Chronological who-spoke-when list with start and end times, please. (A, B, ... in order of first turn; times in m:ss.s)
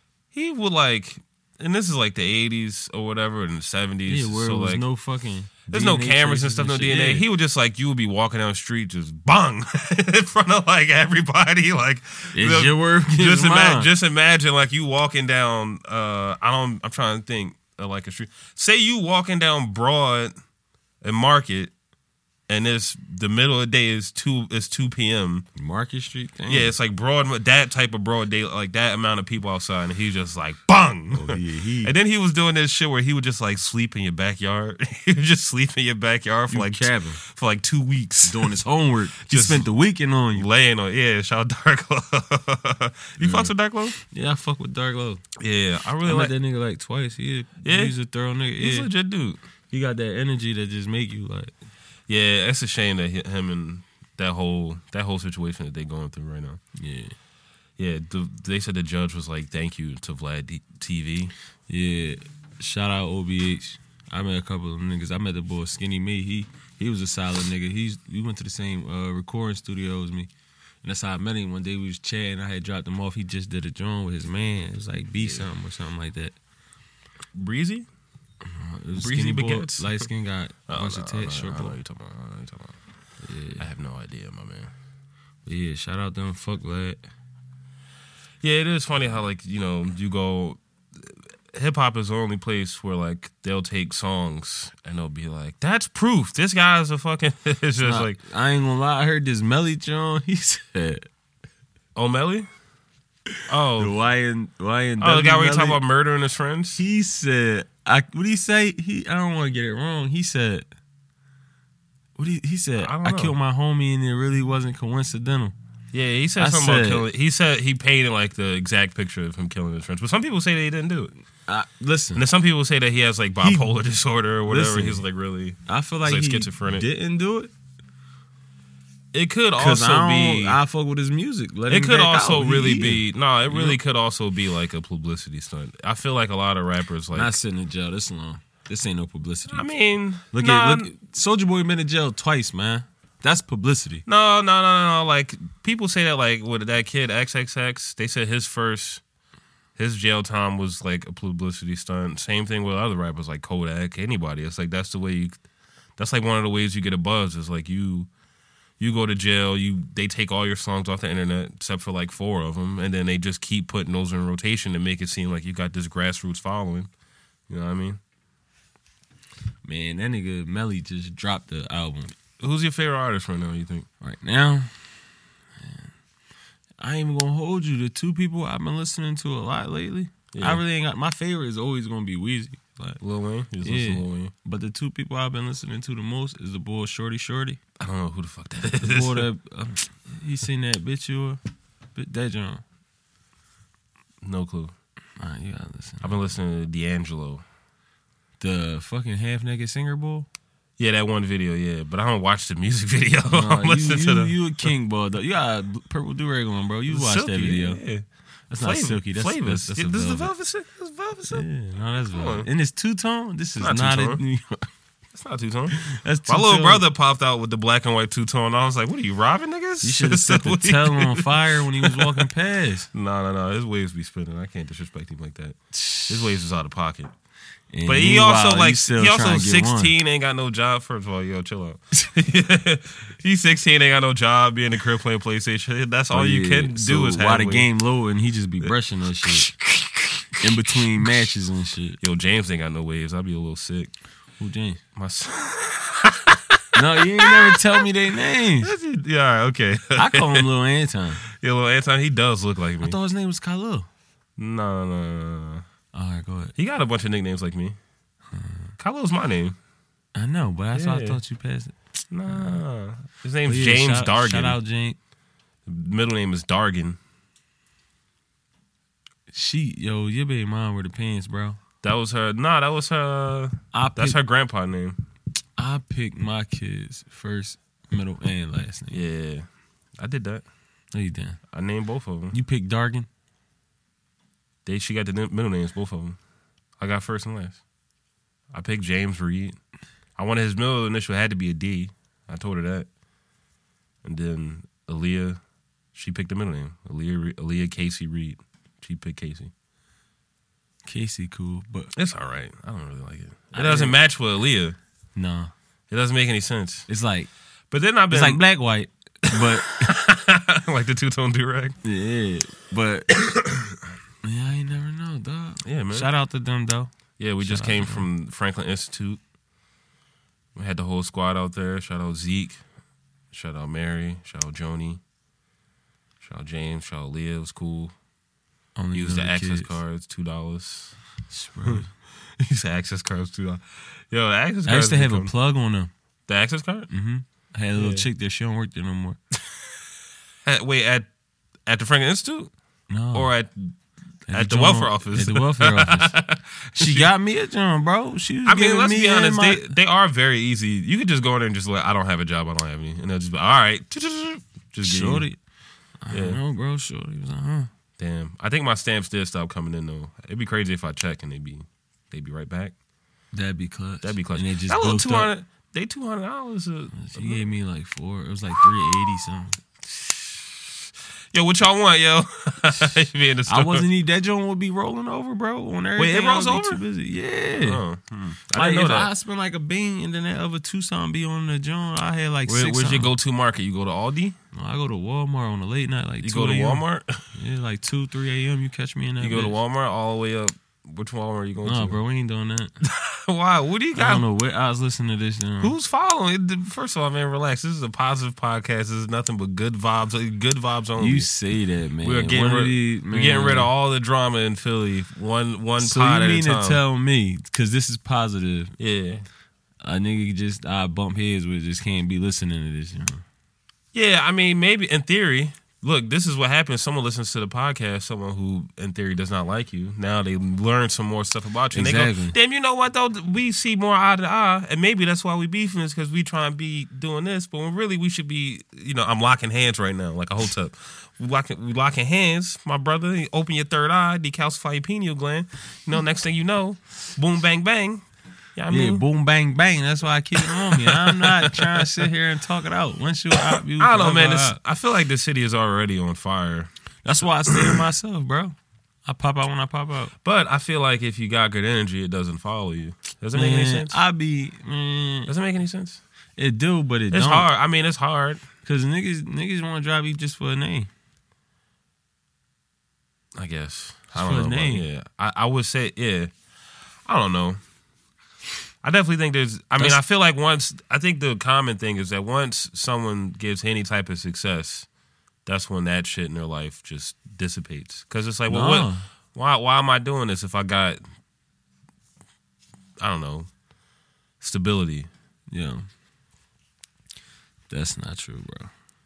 0:00.3-0:04.8 A
0:04.1-0:07.3 B
0:05.7-0:20.3 A
0:12.3-0:13.9 B
0:21.0-0:21.7 A
0:22.5-0:25.5 A
0:25.5-0:26.7 B
0:26.5-0:38.6 A
0:31.1-0:31.9 B
0:36.5-0:37.2 B
0:38.2-0:40.5 B
0:39.2-0:39.7 A
0:40.3-0:44.0 A
0:43.2-0:43.5 B
0:44.0-0:45.2 B
0:45.4-0:46.3 A
0:46.0-0:48.9 B
0:47.6-0:48.0 A
0:48.6-0:49.4 A
0:49.7-0:51.5 B
0:52.1-0:56.6 A
0:56.8-0:57.1 B
0:57.8-1:01.3 A
1:01.7-1:10.3 B
1:10.8-1:16.4 B
1:17.3-1:17.9 A
1:18.4-1:21.8 B
1:19.0-1:20.0 A
1:20.7-1:22.8 A
1:23.2-1:23.6 B
1:23.6-1:24.7 A
1:25.4-1:27.0 B
1:28.4-1:38.2 A
1:37.8-1:41.1 B
1:41.9-1:42.5 A
1:43.5-1:44.0 A
1:43.8-1:45.8 B
1:45.0-1:46.8 A
1:46.8-1:50.7 B
1:52.2-1:55.5 B
1:52.8-1:53.3 A
1:55.9-2:01.1 A
1:56.4-1:57.1 B
2:01.5-2:02.2 B
2:02.1-2:06.8 A
2:04.5-2:05.0 B
2:05.7-2:07.5 B
2:09.1-2:10.6 A
2:09.6-2:13.8 B
2:11.7-2:17.4 A
2:17.1-2:19.7 B
2:19.5-2:20.9 A
2:20.3-2:24.0 B
2:24.0-2:29.0 A
2:29.8-2:35.4 A
2:36.0-2:38.1 A
2:38.8-2:46.9 A
2:47.5-2:48.0 A
2:49.6-2:52.1 B
2:52.4-2:53.9 A
2:54.0-2:54.7 B
2:55.6-2:55.9 B
2:56.8-3:03.0 B
3:00.3-3:00.6 A
3:03.0-3:04.3 A
3:03.6-3:07.6 B
3:07.8-3:09.2 A
3:08.8-3:11.4 B
3:11.9-3:12.6 B
3:14.2-3:14.7 A
3:15.2-3:16.2 B
3:16.0-3:17.4 A
3:18.4-3:20.3 B
3:20.8-3:24.7 A
3:23.3-3:27.8 B
3:26.9-3:28.0 A
3:28.5-3:30.3 B
3:28.6-3:31.4 A
3:31.3-3:34.7 B
3:32.1-3:32.5 A
3:33.6-3:34.2 A
3:35.1-3:42.3 A
3:35.7-3:36.8 B
3:39.8-3:42.9 B
3:42.9-3:47.1 A
3:45.7-3:46.3 B
3:47.7-3:49.9 B
3:47.8-3:57.7 A
3:56.1-3:59.5 B
3:59.2-4:01.1 A
4:00.4-4:02.0 B
4:02.0-4:03.9 A
4:04.4-4:04.8 B
4:04.9-4:07.8 A
4:06.7-4:08.7 B
4:08.6-4:10.5 A
4:09.9-4:11.2 B
4:11.3-4:13.0 A
4:12.8-4:13.9 B
4:14.4-4:15.6 A
4:15.9-4:16.5 B
4:16.6-4:17.8 A
4:18.3-4:18.7 B
4:18.8-4:19.6 A
4:20.1-4:21.7 B
4:20.7-4:21.2 A
4:22.1-4:24.6 A
4:22.3-4:22.6 B
4:23.4-4:25.0 B
4:25.6-4:27.0 A
4:29.3-4:31.6 B
4:31.8-4:35.0 A
4:33.7-4:34.2 B
4:35.6-4:39.0 B
4:38.9-4:39.5 A
4:40.0-4:40.4 A
4:40.9-4:41.4 B
4:41.5-4:42.4 A
4:42.3-4:43.1 B
4:44.6-4:46.2 A
4:46.8-4:47.6 A
4:48.5-4:49.6 A
4:50.2-4:52.9 A
4:54.0-4:55.4 A
4:55.9-4:59.5 A
5:00.8-5:01.9 B
5:01.9-5:04.8 A
5:03.5-5:04.0 B
5:05.2-5:05.5 B
5:05.9-5:06.9 A
5:06.9-5:07.3 B
5:07.7-5:08.4 A
5:08.1-5:09.9 B
5:09.2-5:11.8 A
5:11.8-5:13.1 B
5:13.2-5:13.8 A
5:14.2-5:18.1 B
5:15.6-5:16.1 A
5:17.2-5:19.2 A
5:20.5-5:22.6 A
5:23.3-5:25.0 A
5:26.2-5:27.9 A
5:28.8-5:29.8 B
5:28.9-5:31.0 A
5:31.3-5:31.9 B
5:32.4-5:35.3 A
5:34.6-5:35.9 B
5:36.3-5:36.9 A
5:36.9-5:39.2 B
5:37.8-5:38.0 A
5:40.4-5:41.1 A
5:41.6-5:42.5 A
5:42.9-5:43.3 B
5:43.1-5:43.8 A
5:44.3-5:46.2 B
5:44.3-5:47.1 A
5:46.7-5:49.7 B
5:48.4-5:55.2 A
5:54.8-5:55.4 B
5:56.0-5:57.7 B
5:56.1-5:56.4 A
5:58.0-6:02.7 A
6:03.3-6:05.3 B
6:04.0-6:07.4 A
6:06.9-6:09.6 B
6:09.8-6:10.6 A
6:11.3-6:13.8 A
6:13.5-6:17.8 B
6:16.0-6:16.8 A
6:17.6-6:19.1 A
6:18.5-6:23.1 B
6:22.5-6:24.4 A
6:24.5-6:29.6 B
6:26.2-6:27.2 A
6:29.2-6:32.0 A
6:31.6-6:32.7 B
6:32.8-6:34.3 A
6:33.9-6:35.7 B
6:35.6-6:41.3 A
6:41.0-6:43.7 B
6:42.0-6:46.8 A
6:45.8-6:48.7 B
6:48.8-6:49.2 A
6:49.8-6:53.2 B
6:53.9-7:18.0 A
7:01.7-7:02.3 B
7:18.6-7:19.0 A
7:18.7-7:24.6 B
7:20.4-7:22.1 A
7:23.6-7:26.7 A
7:27.0-7:30.1 B
7:27.5-7:27.8 A
7:30.2-7:34.0 A
7:33.3-7:35.3 B
7:35.3-7:36.0 A
7:36.4-7:37.5 B
7:37.1-7:38.4 A
7:38.6-7:40.9 B
7:43.4-7:46.3 A
7:44.1-7:44.8 B
7:47.0-7:47.6 A
7:48.8-7:54.9 A
7:55.4-8:01.0 A
7:58.5-7:59.0 B
8:03.0-8:03.5 A
8:04.4-8:05.1 A
8:05.5-8:05.8 B
8:07.7-8:08.7 B